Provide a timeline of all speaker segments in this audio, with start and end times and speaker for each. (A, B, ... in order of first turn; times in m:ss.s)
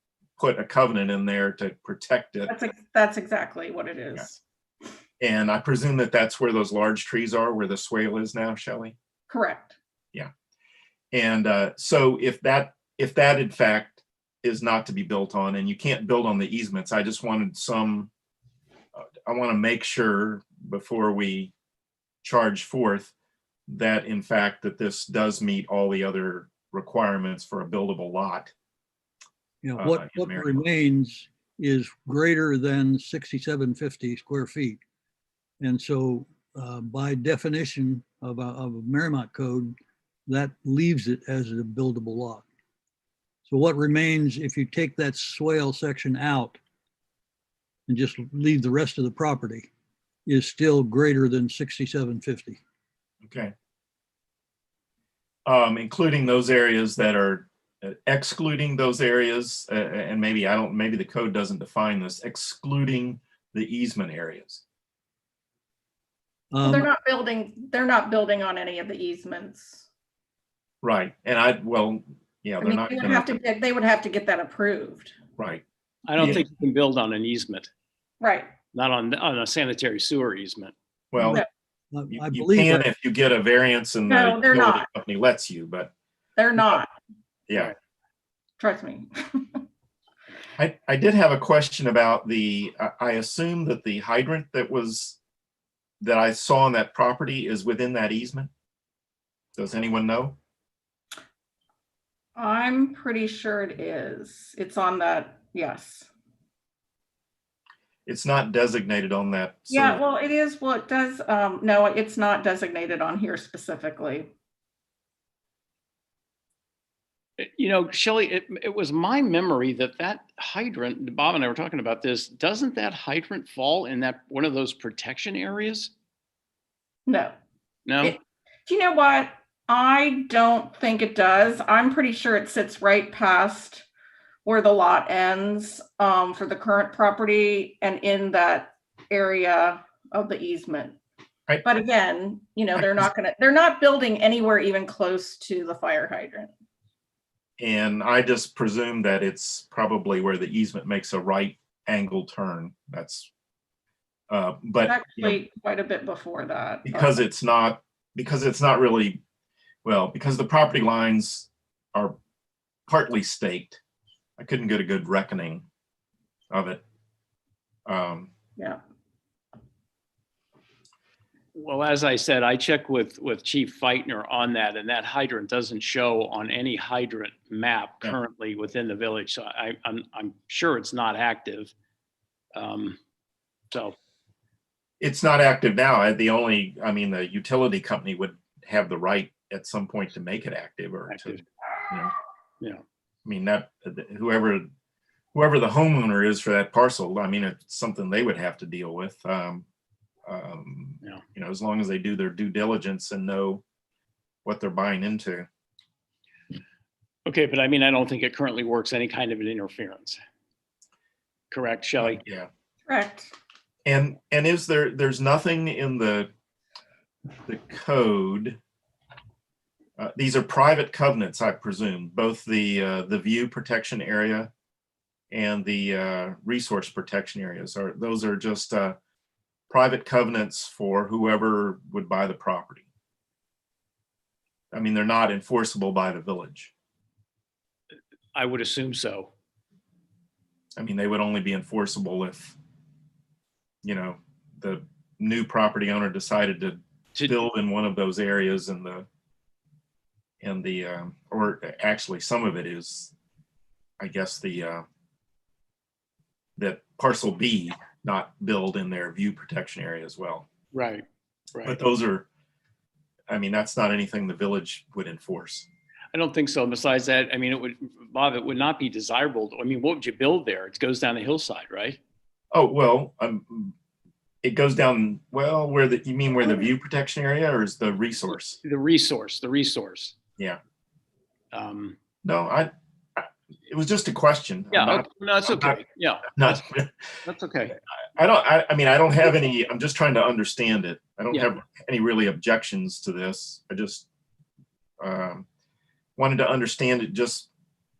0:00.4-0:02.5 A
0:02.5-0:04.4 B
0:05.2-0:08.9 A
0:09.3-0:09.7 B
0:11.1-0:18.1 A
0:19.0-0:21.5 A
0:22.2-0:23.1 A
0:23.7-0:28.5 A
0:29.6-0:34.8 C
0:29.8-0:30.6 A
0:35.6-0:39.7 C
0:40.3-0:42.4 C
0:43.4-0:46.6 C
0:47.9-0:49.7 C
0:50.2-0:52.6 C
0:53.2-0:53.5 A
0:55.4-1:04.6 A
1:06.5-1:06.9 C
1:06.6-1:09.8 B
1:10.8-1:13.4 A
1:12.6-1:15.1 B
1:15.4-1:15.6 A
1:16.1-1:17.7 D
1:16.2-1:16.4 A
1:18.2-1:18.5 B
1:18.7-1:20.7 D
1:21.1-1:21.4 A
1:21.9-1:22.9 C
1:22.1-1:25.9 A
1:24.1-1:24.9 B
1:26.4-1:26.9 B
1:28.6-1:29.6 B
1:30.6-1:35.2 A
1:36.0-1:38.5 A
1:39.6-1:40.4 A
1:42.4-1:46.1 B
1:48.0-1:50.0 A
1:49.7-1:54.3 B
1:57.4-2:05.9 D
2:07.0-2:07.3 B
2:07.8-2:08.2 D
2:08.0-2:13.8 B
2:14.4-2:21.0 B
2:21.6-2:26.5 B
2:27.6-2:33.3 A
2:34.3-2:35.4 A
2:34.8-2:37.2 B
2:36.8-2:39.2 A
2:39.8-2:42.2 A
2:42.9-2:43.8 A
2:44.4-2:45.6 A
2:46.5-2:46.8 A
2:47.9-2:48.3 A
2:51.5-3:01.7 D
3:02.5-3:03.0 D
3:05.0-3:12.1 A
3:11.1-3:11.4 D
3:13.2-3:14.7 A
3:15.3-3:19.6 A
3:20.2-3:23.6 A
3:24.4-3:25.5 A
3:27.2-3:30.2 D
3:31.5-3:32.2 D
3:32.0-3:32.5 A
3:32.9-3:33.3 B
3:33.8-3:36.3 A
3:37.4-3:38.6 A
3:40.0-3:44.5 A
3:45.3-3:49.0 A
3:49.7-3:52.8 A
3:54.7-3:56.7 A
3:58.3-3:59.3 D
4:00.8-4:02.6 A
4:03.8-4:09.0 A
4:07.1-4:07.4 D
4:10.4-4:13.1 A
4:14.0-4:14.8 A
4:16.6-4:20.5 A
4:20.7-4:21.0 D
4:21.5-4:21.8 D
4:21.6-4:22.3 A
4:23.3-4:25.7 A
4:26.1-4:32.0 D
4:32.5-4:33.7 A
4:34.4-4:38.6 A
4:38.3-4:40.2 D
4:41.5-4:42.0 D
4:42.2-4:45.8 A
4:44.7-4:46.6 D
4:46.3-4:47.2 A
4:47.2-4:47.7 D
4:48.2-4:54.1 A
4:55.0-4:55.4 A
4:56.2-4:57.5 A